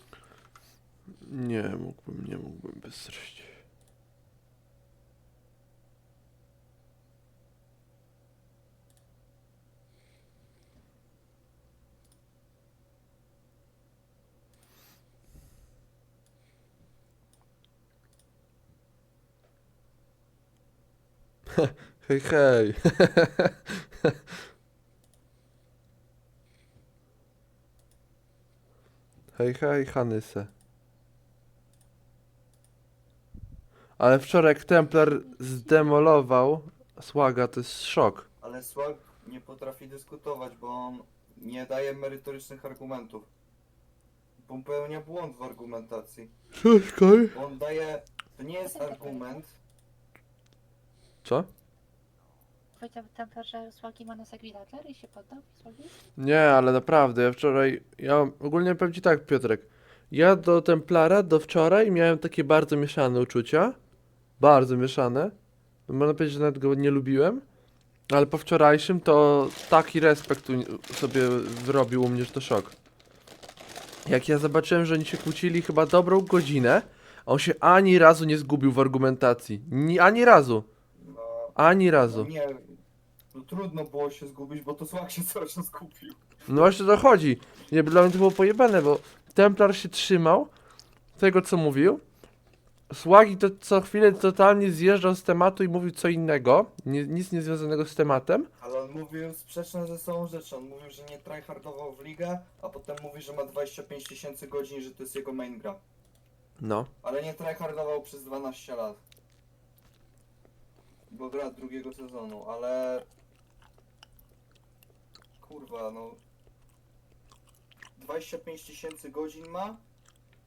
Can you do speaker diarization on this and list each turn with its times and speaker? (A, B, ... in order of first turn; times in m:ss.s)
0:01.2-0:03.6 A
0:21.6-0:24.1 A
0:29.3-0:30.5 A
0:34.0-0:38.2 A
0:38.4-0:43.3 B
0:44.4-0:46.3 B
0:46.6-0:47.3 A
0:47.3-0:49.6 B
0:48.6-0:49.4 C
0:52.8-0:56.0 C
0:56.2-1:03.8 A
1:04.4-1:05.3 A
1:05.9-1:07.4 A
1:08.1-1:12.7 A
1:14.0-1:20.7 A
1:21.0-1:22.8 B
1:21.6-1:22.3 A
1:23.3-1:26.2 B
1:26.5-1:30.5 A
1:31.2-1:32.0 A
1:32.9-1:38.5 A
1:38.6-1:45.8 B
1:46.6-1:46.9 A
1:47.0-1:49.0 B
1:51.1-1:53.0 B
1:55.4-1:56.2 B
1:58.0-1:59.8 B